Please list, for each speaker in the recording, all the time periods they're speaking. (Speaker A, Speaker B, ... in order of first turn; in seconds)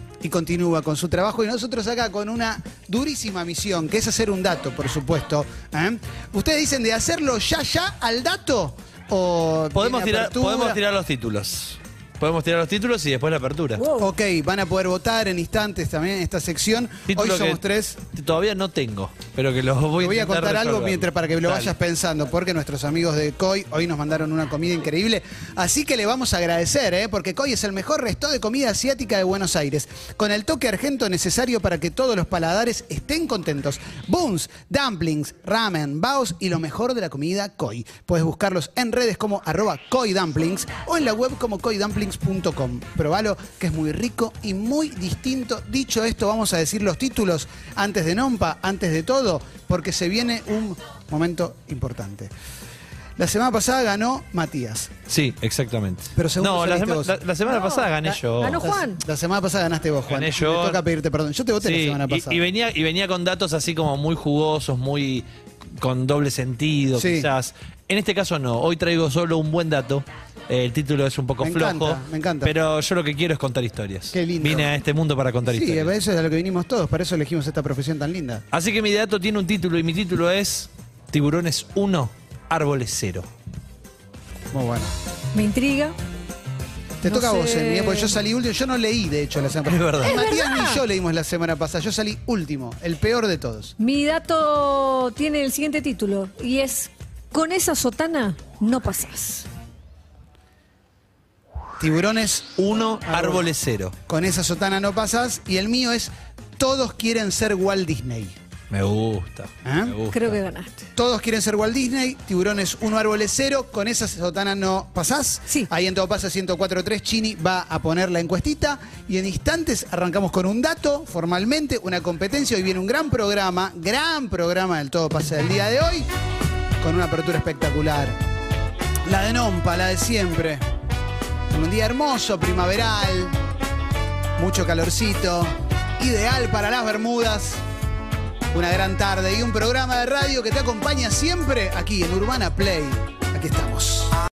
Speaker A: 0.2-10.8, 14.0-18.0, 20.0-52.3, 53.2-54.9, 56.1-57.2, 58.6-62.4, 66.9-67.3, 71.4-72.5, 74.1-74.7, 75.5-78.4, 84.5-84.9, 87.0-93.7, 101.8-103.5, 104.1-108.3, 109.6-109.9, 110.9-126.0, 126.8-128.2, 129.1-130.6, 131.5-133.3, 134.4-137.6, 138.5-144.1
Speaker B: 9.8-13.8, 17.1-21.7, 55.1-58.6, 60.1-60.8, 61.6-65.2, 65.8-75.9, 78.5-83.3, 89.7-90.1, 102.6-103.9, 108.7-110.3
Speaker C: 13.8-14.1, 57.4-59.0, 85.3-85.9, 87.0-88.2, 90.0-90.8, 93.8-99.5, 110.1-110.8